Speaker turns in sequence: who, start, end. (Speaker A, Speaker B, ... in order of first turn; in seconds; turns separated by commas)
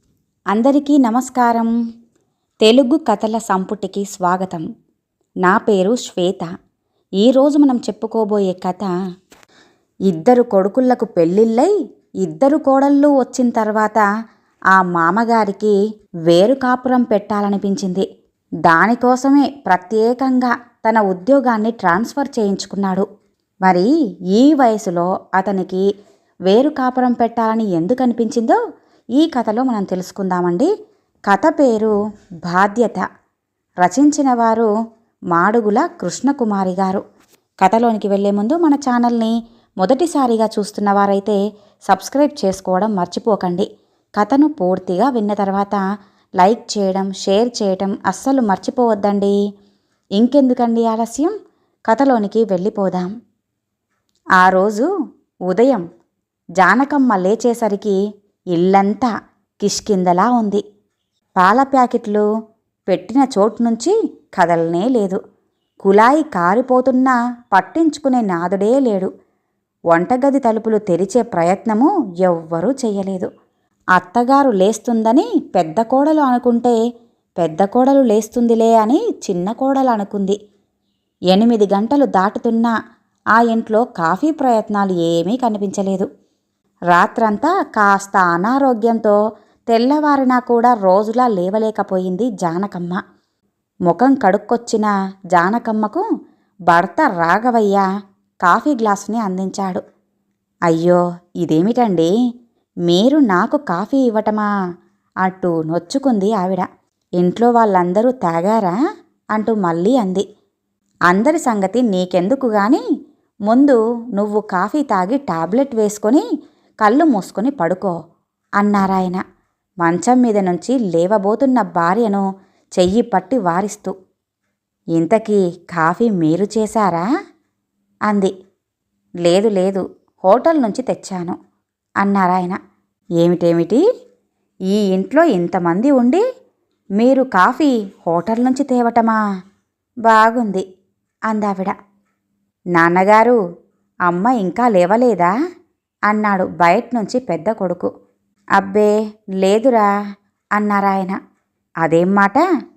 Speaker A: 0.5-1.7, Speaker A: 2.6-4.7, Speaker A: 5.5-6.5, Speaker A: 7.2-8.9, Speaker A: 10.1-11.7, Speaker A: 12.2-14.0, Speaker A: 14.7-15.8, Speaker A: 16.3-18.0, Speaker A: 18.6-23.1, Speaker A: 23.6-25.9, Speaker A: 26.5-28.6, Speaker A: 29.2-30.7, Speaker A: 31.3-31.9, Speaker A: 32.4-33.1, Speaker A: 33.8-34.7, Speaker A: 35.3-37.0, Speaker A: 37.6-43.7, Speaker A: 44.2-45.8, Speaker A: 46.4-49.4, Speaker A: 50.2-51.3, Speaker A: 51.9-53.1, Speaker A: 54.4-54.9, Speaker A: 55.5-55.8, Speaker A: 56.6-58.0, Speaker A: 58.5-59.1, Speaker A: 59.6-60.6, Speaker A: 61.4-62.2, Speaker A: 62.9-65.2, Speaker A: 65.8-69.1, Speaker A: 69.9-73.3, Speaker A: 74.0-76.8, Speaker A: 77.4-80.4, Speaker A: 81.3-82.7, Speaker A: 83.4-86.1, Speaker A: 86.9-89.2, Speaker A: 89.7-93.0, Speaker A: 93.9-96.0, Speaker A: 96.7-97.8, Speaker A: 98.5-99.8, Speaker A: 100.7-102.1, Speaker A: 102.9-104.5, Speaker A: 105.2-106.7, Speaker A: 107.2-108.8, Speaker A: 109.3-110.2, Speaker A: 111.1-112.8, Speaker A: 113.5-116.2, Speaker A: 116.8-118.0, Speaker A: 118.6-119.2, Speaker A: 119.8-122.2, Speaker A: 122.8-123.9, Speaker A: 125.0-127.1, Speaker A: 129.2-131.4, Speaker A: 132.0-132.6, Speaker A: 133.2-133.8, Speaker A: 134.7-136.2, Speaker A: 137.0-139.2, Speaker A: 140.1-140.6, Speaker A: 141.3-141.8, Speaker A: 142.8-143.4, Speaker A: 144.1-145.3, Speaker A: 146.1-147.9, Speaker A: 148.6-149.9, Speaker A: 150.6-151.2, Speaker A: 151.8-152.4